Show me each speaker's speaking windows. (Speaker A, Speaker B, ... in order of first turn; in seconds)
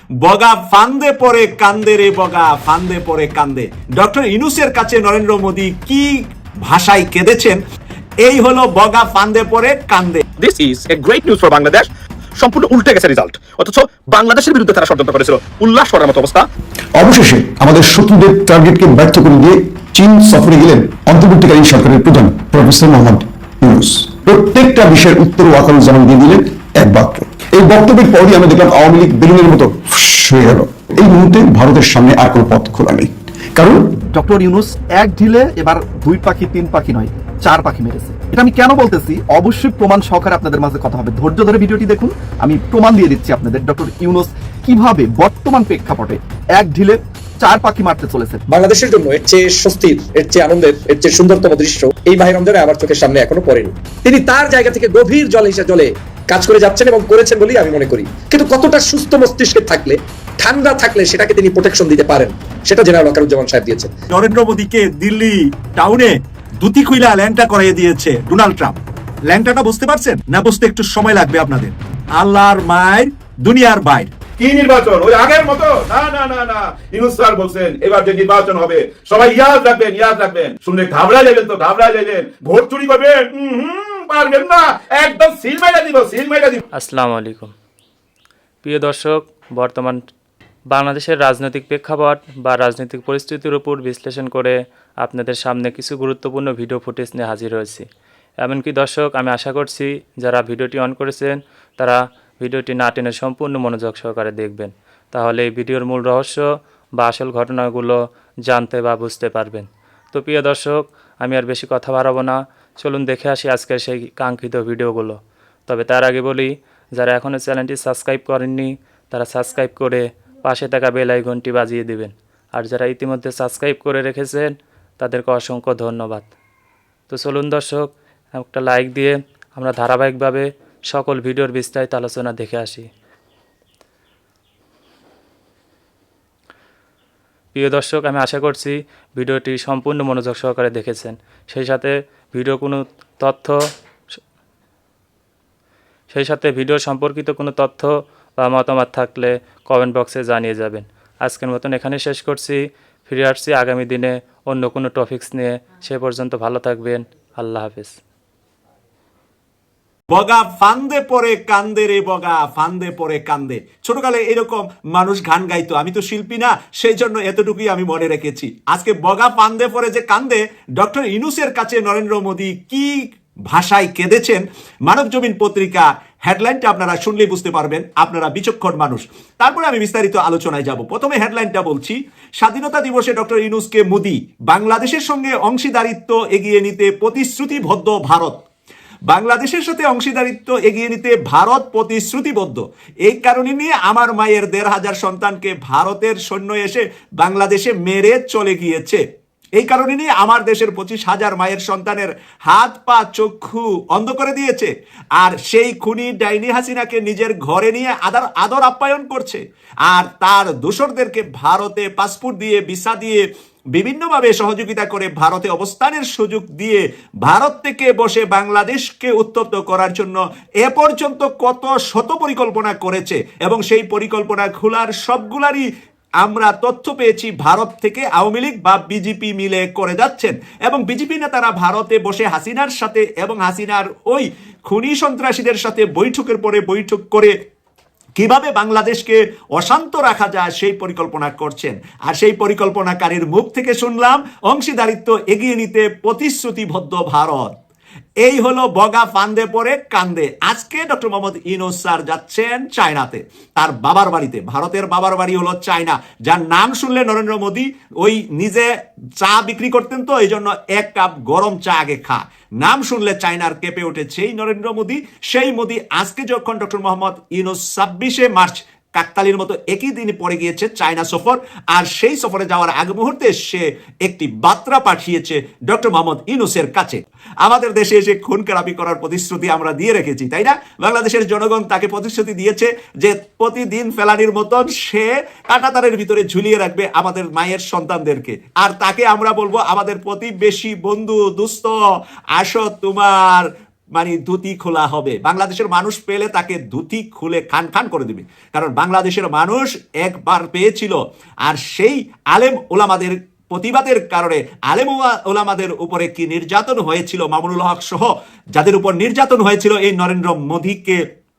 Speaker A: 0.2-7.6, 8.2-10.2, 64.1-68.8, 69.3-74.3, 75.8-77.9, 78.6-80.7, 81.3-83.3, 160.1-172.9, 173.5-188.4, 189.1-199.0, 199.6-213.2, 213.7-225.7, 226.2-237.3, 238.2-247.5, 248.2-258.7, 259.2-291.8, 292.4-311.0
Speaker B: 10.6-11.8, 12.9-16.3
Speaker C: 12.4-12.7, 34.1-48.4
Speaker D: 16.9-33.9
Speaker E: 48.5-63.9
Speaker F: 74.4-75.9, 77.1-80.0, 80.7-81.4, 82.5-86.6
Speaker G: 86.7-87.5, 88.6-90.0, 90.7-97.8, 98.4-126.3, 127.1-132.9, 137.5-143.6, 146.1-158.0